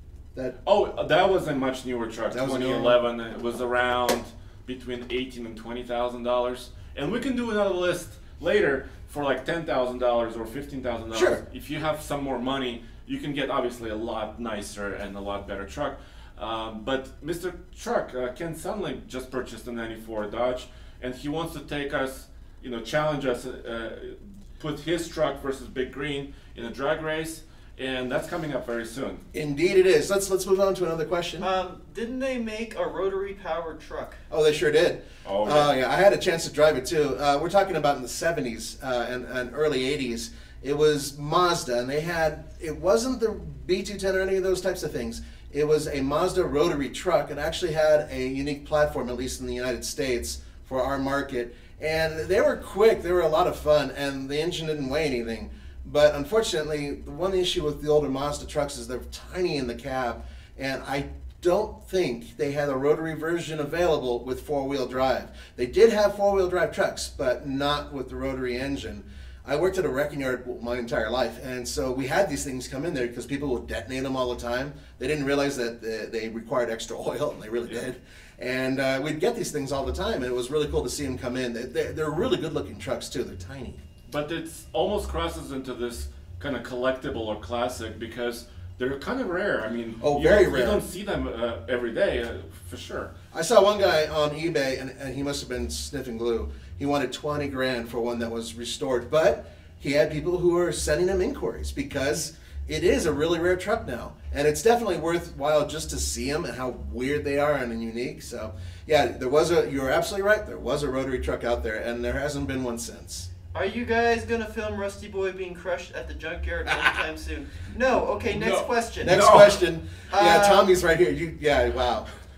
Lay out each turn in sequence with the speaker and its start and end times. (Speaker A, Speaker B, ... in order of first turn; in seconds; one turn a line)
Speaker A: 0.6-29.2
Speaker B: 2.3-3.0
Speaker B: 11.1-11.4
Speaker B: 29.3-31.4
Speaker C: 31.4-34.2
Speaker B: 34.3-83.8
Speaker A: 35.2-35.7
Speaker A: 84.1-93.1
Speaker B: 90.0-90.8
Speaker B: 93.3-113.3
Speaker C: 113.5-119.2
Speaker A: 118.2-119.6
Speaker B: 119.0-122.1
Speaker C: 120.1-120.7